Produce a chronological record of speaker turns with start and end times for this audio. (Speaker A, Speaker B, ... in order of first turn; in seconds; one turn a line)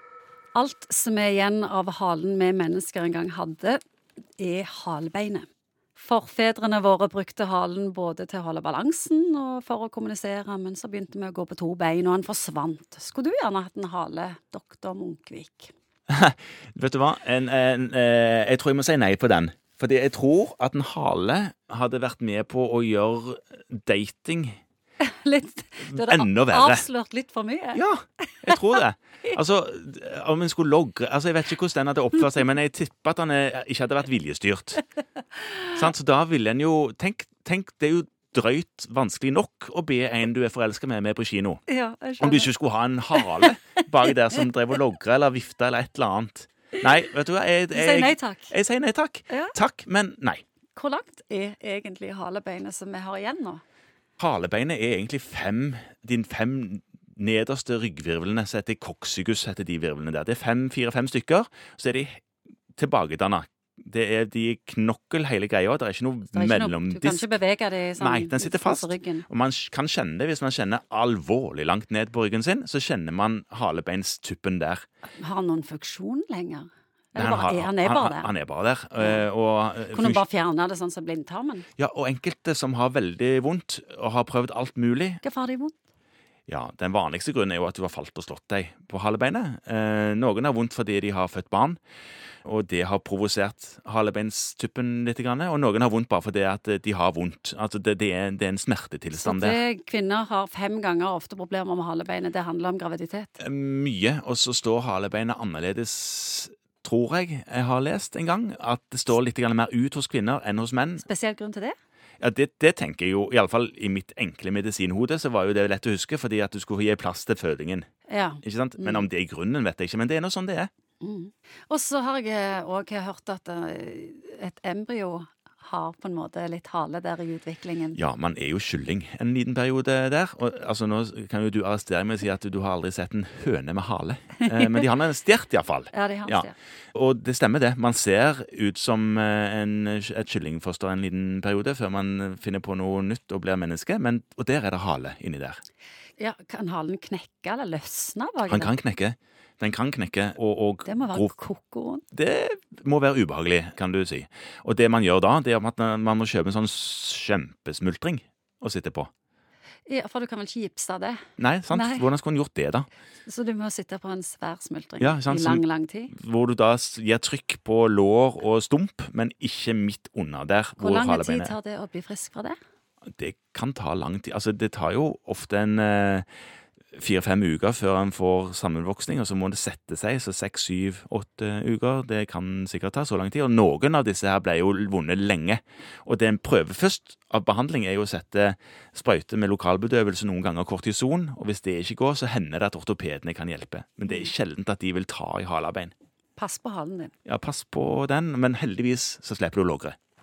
Speaker A: 0.5-3.8
Speaker A: 4.4-15.7
Speaker B: 16.1-24.6
Speaker A: 25.0-29.4
Speaker B: 25.8-26.8
Speaker B: 27.7-34.8
Speaker B: 35.7-41.6
Speaker A: 41.7-42.5
Speaker B: 42.2-50.4
Speaker A: 43.1-43.5
Speaker A: 47.7-48.5
Speaker A: 50.8-53.6
Speaker B: 54.2-62.2
Speaker B: 62.7-67.3
Speaker A: 66.3-69.2
Speaker B: 68.0-74.8
Speaker A: 75.2-78.3
Speaker B: 77.2-80.2
Speaker A: 79.0-79.2
Speaker A: 79.9-81.7
Speaker B: 81.8-85.2
Speaker A: 85.2-85.8
Speaker B: 86.5-91.8
Speaker B: 92.4-99.6
Speaker A: 99.1-103.3
Speaker B: 103.4-111.0
Speaker A: 111.0-111.7
Speaker B: 112.2-117.9
Speaker A: 118.1-119.0
Speaker B: 118.4-120.7
Speaker A: 121.0-128.0
Speaker B: 127.9-145.6
Speaker A: 134.5-134.8
Speaker A: 135.9-136.5
Speaker A: 146.2-148.7
Speaker B: 148.5-151.3
Speaker A: 150.8-152.0
Speaker B: 152.1-159.1
Speaker A: 159.9-162.1
Speaker B: 161.4-162.9
Speaker A: 163.2-166.1
Speaker B: 165.0-171.5
Speaker A: 170.8-172.6
Speaker B: 173.1-176.2
Speaker B: 176.9-195.9
Speaker A: 196.4-197.1
Speaker B: 197.2-199.9